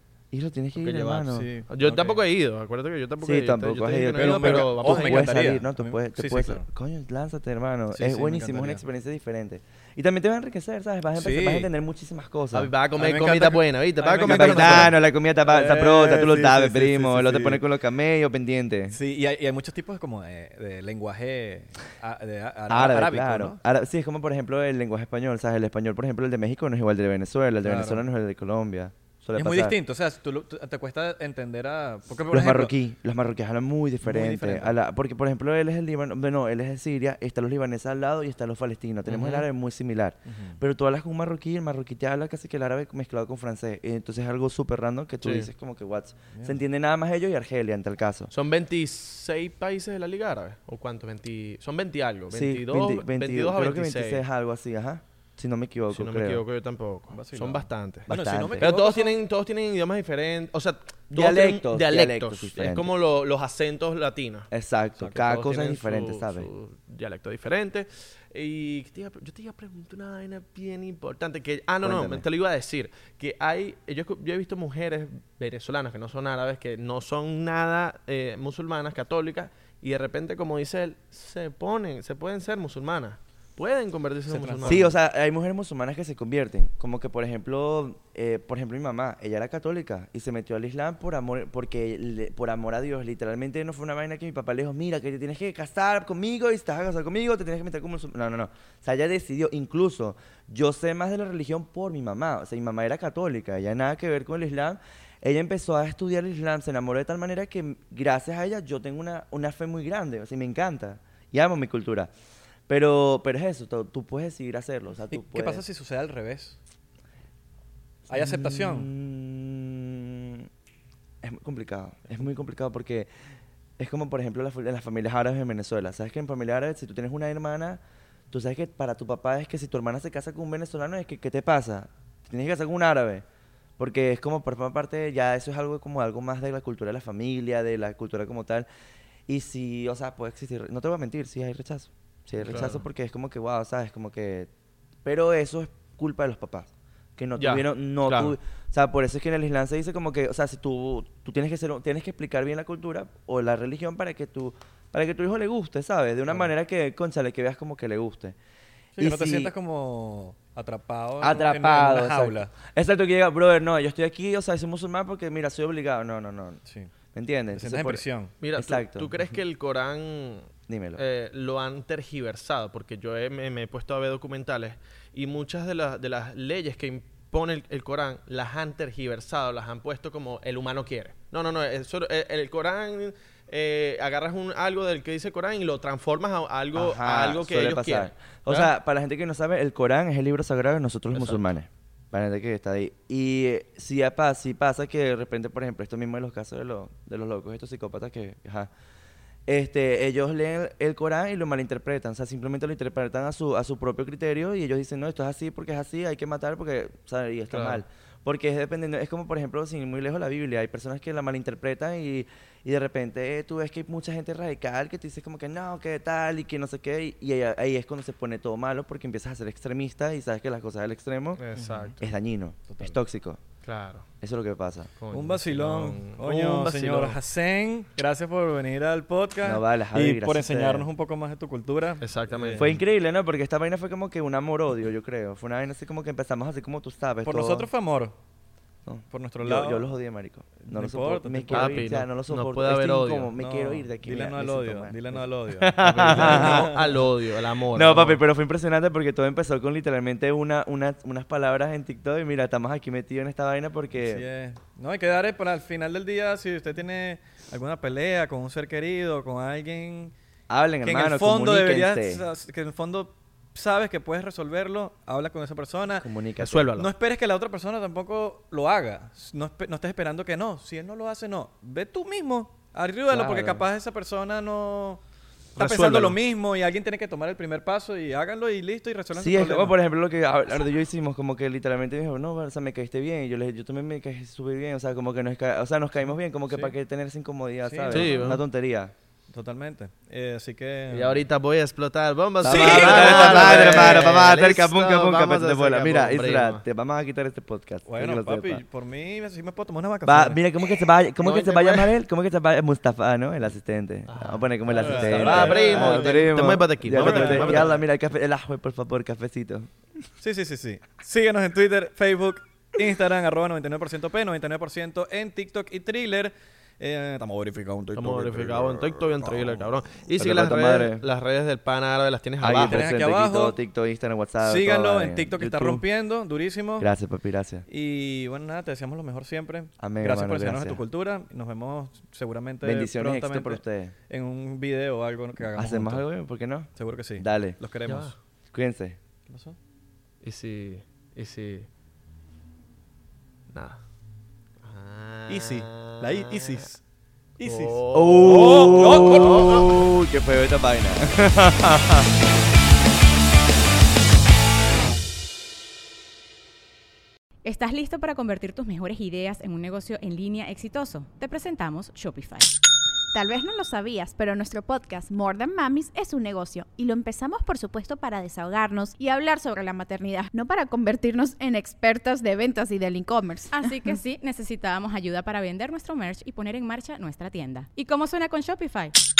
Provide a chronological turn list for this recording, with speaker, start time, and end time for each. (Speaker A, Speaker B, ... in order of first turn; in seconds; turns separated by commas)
Speaker A: 0.3-1.5, Speaker B: 0.8-5.5, Speaker C: 1.2-2.2, Speaker A: 3.2-12.7, Speaker C: 4.2-6.7, Speaker C: 7.9-8.8, Speaker C: 11.1-11.7, Speaker B: 12.5-14.9, Speaker C: 12.9-17.6, Speaker A: 14.2-19.0, Speaker C: 18.9-23.6, Speaker A: 22.7-29.8, Speaker C: 27.6-28.0, Speaker C: 29.3-32.7, Speaker A: 32.3-48.3, Speaker C: 34.0-34.8, Speaker B: 39.1-39.4, Speaker C: 40.3-40.6, Speaker B: 45.2-45.5, Speaker C: 46.3-46.6, Speaker B: 48.3-54.2, Speaker A: 52.3-56.4, Speaker B: 55.9-64.5, Speaker C: 57.1-59.2, Speaker A: 58.1-58.7, Speaker A: 61.1-62.9, Speaker A: 64.5-66.5, Speaker B: 65.2-84.9, Speaker A: 71.8-72.2, Speaker C: 84.3-85.0, Speaker A: 84.7-112.1, Speaker A: 112.7-115.6, Speaker C: 115.1-116.6, Speaker C: 118.1-118.9, Speaker A: 118.1-120.5, Speaker A: 121.2-123.1, Speaker A: 123.8-127.8, Speaker A: 128.3-133.2, Speaker A: 133.8-138.7, Speaker A: 139.3-144.5, Speaker B: 142.4-142.8, Speaker A: 145.0-158.3, Speaker B: 147.4-148.3, Speaker C: 158.9-162.5, Speaker A: 159.0-159.5, Speaker A: 161.2-166.6, Speaker C: 166.6-166.9, Speaker A: 167.1-169.1, Speaker C: 167.5-168.3, Speaker B: 168.4-188.7, Speaker A: 170.7-171.0, Speaker A: 186.7-198.7, Speaker B: 191.1-191.4, Speaker A: 199.5-221.4, Speaker B: 207.5-207.8, Speaker B: 221.4-222.0, Speaker C: 221.5-222.0, Speaker A: 222.0-223.4, Speaker C: 222.7-223.0, Speaker B: 223.6-224.1, Speaker A: 224.2-224.9, Speaker B: 225.0-227.2, Speaker C: 225.1-232.8, Speaker A: 229.4-230.9, Speaker B: 232.0-232.8, Speaker A: 232.6-237.7, Speaker C: 237.2-238.2, Speaker A: 238.8-246.8, Speaker C: 239.1-239.9, Speaker C: 240.6-241.9, Speaker B: 241.5-243.3, Speaker C: 243.4-247.0, Speaker B: 245.8-248.2, Speaker A: 247.7-254.2, Speaker C: 253.9-260.1, Speaker A: 260.5-262.2, Speaker C: 260.8-266.1, Speaker A: 266.0-266.7, Speaker B: 266.4-266.9, Speaker C: 266.8-275.0, Speaker A: 273.1-273.6, Speaker B: 275.6-276.2, Speaker C: 275.6-279.8, Speaker A: 279.1-288.9, Speaker C: 286.5-286.7, Speaker C: 287.6-288.4, Speaker B: 287.9-288.4, Speaker C: 289.3-291.2, Speaker B: 290.9-296.6, Speaker A: 292.4-298.6, Speaker C: 292.4-294.2, Speaker C: 297.9-300.4, Speaker A: 300.0-309.7, Speaker B: 301.2-302.0, Speaker B: 304.1-307.8, Speaker C: 304.7-307.8, Speaker C: 310.2-319.7, Speaker B: 317.9-322.9, Speaker A: 320.1-321.0, Speaker A: 322.4-325.8, Speaker C: 322.6-323.6, Speaker C: 324.4-326.9, Speaker A: 326.8-327.6, Speaker C: 327.7-336.1, Speaker A: 329.8-330.8, Speaker A: 332.6-333.9, Speaker A: 335.6-337.6, Speaker C: 336.8-338.1, Speaker B: 337.9-338.1, Speaker A: 338.5-339.0, Speaker C: 339.3-339.6, Speaker B: 340.2-341.7, Speaker B: 343.5-343.8, Speaker B: 344.6-346.7, Speaker C: 345.3-346.8, Speaker C: 347.4-349.8, Speaker B: 347.4-349.8, Speaker A: 347.9-352.1, Speaker D: 357.4-362.5, Speaker E: 363.1-373.6, Speaker D: 373.5-378.9